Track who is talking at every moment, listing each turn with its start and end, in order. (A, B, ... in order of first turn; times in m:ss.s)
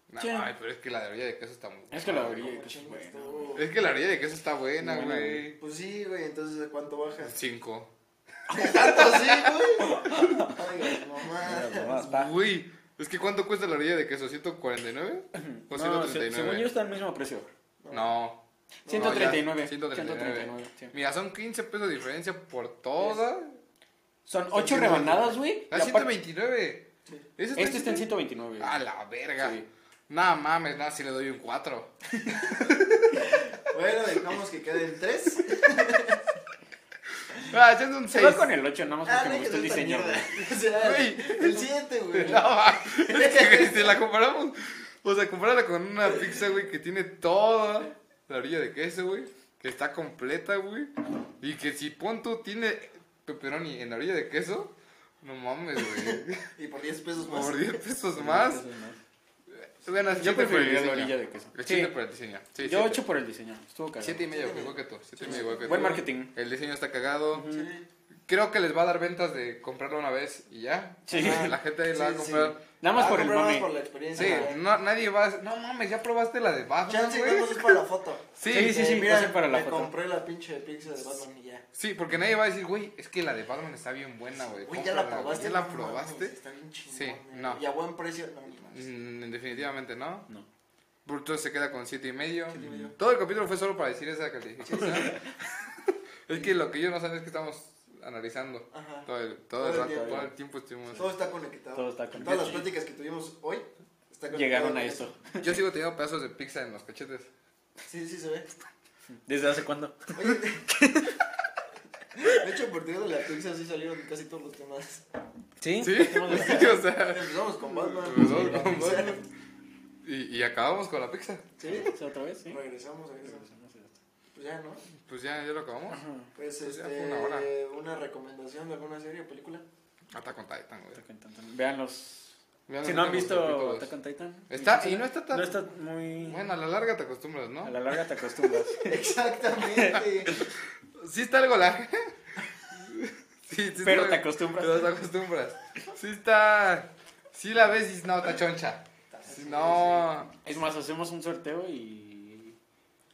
0:00.1-0:02.6 A
0:00.2-0:00.5 B
0:01.9-0:03.6 B
0:02.1-0:03.7 C
0:03.6-0:05.6 A
0:04.8-0:05.4 B
0:05.6-0:07.3 C
0:07.2-0:07.9 A
0:08.5-0:12.1 C
0:08.5-0:09.5 A
0:09.8-0:12.3 B
0:11.9-0:16.7 A
0:15.3-0:17.5 B
0:17.8-0:18.2 C
0:17.9-0:23.6 A
0:18.8-0:19.4 C
0:18.8-0:20.9 B
0:24.2-0:26.1 B
0:24.5-0:25.4 C
0:25.7-0:28.1 A
0:27.5-0:28.8 B
0:28.6-0:33.3 A
0:29.4-0:29.6 B
0:33.2-0:36.2 C
0:37.3-0:38.5 A
0:38.1-0:40.5 B
0:39.0-0:44.0 C
0:40.7-0:56.4 A
0:55.8-0:57.8 C
0:57.2-0:58.6 A
0:58.1-0:59.0 B
0:59.5-1:03.0 A
1:00.1-1:02.0 B
1:02.6-1:04.3 B
1:04.0-1:07.5 A
1:04.3-1:06.0 C
1:05.2-1:06.3 B
1:07.3-1:07.7 B
1:07.4-1:07.8 C
1:08.3-1:12.6 A
1:11.1-1:11.5 B
1:11.1-1:14.6 C
1:12.8-1:14.5 B
1:14.1-1:17.8 A
1:16.9-1:21.6 C
1:18.4-1:18.8 A
1:18.4-1:19.9 B
1:21.7-1:26.3 A
1:24.4-1:28.9 C
1:26.9-1:27.6 A
1:28.7-1:30.3 A
1:31.0-1:35.3 A
1:32.5-1:32.9 C
1:32.6-1:32.9 B
1:34.6-1:35.4 C
1:36.3-1:41.1 A
1:38.7-1:40.3 C
1:39.8-1:40.3 B
1:41.0-1:45.1 C
1:41.7-1:42.7 B
1:44.3-1:45.5 B
1:45.4-1:47.3 A
1:47.8-1:48.5 C
1:49.2-1:51.4 B
1:50.1-1:50.7 C
1:52.2-1:55.0 C
1:55.6-1:56.8 B
1:55.8-1:57.4 A
1:56.3-1:59.2 C
1:57.9-1:59.1 B
1:58.0-1:59.2 A
2:00.0-2:01.5 A
2:01.6-2:01.9 C
2:01.6-2:02.6 B
2:02.5-2:03.4 C
2:03.2-2:04.0 B
2:04.3-2:04.8 C
2:05.0-2:06.0 A
2:05.9-2:06.3 B
2:06.4-2:09.6 C
2:06.6-2:07.5 A
2:10.1-2:11.0 A
2:10.9-2:16.5 B
2:12.7-2:13.9 A
2:14.5-2:15.6 A
2:16.2-2:18.4 A
2:17.6-2:19.1 B
2:18.8-2:20.4 C
2:19.7-2:20.5 B
2:20.9-2:30.3 A
2:23.8-2:24.9 B
2:29.1-2:30.1 C
2:30.4-2:32.6 B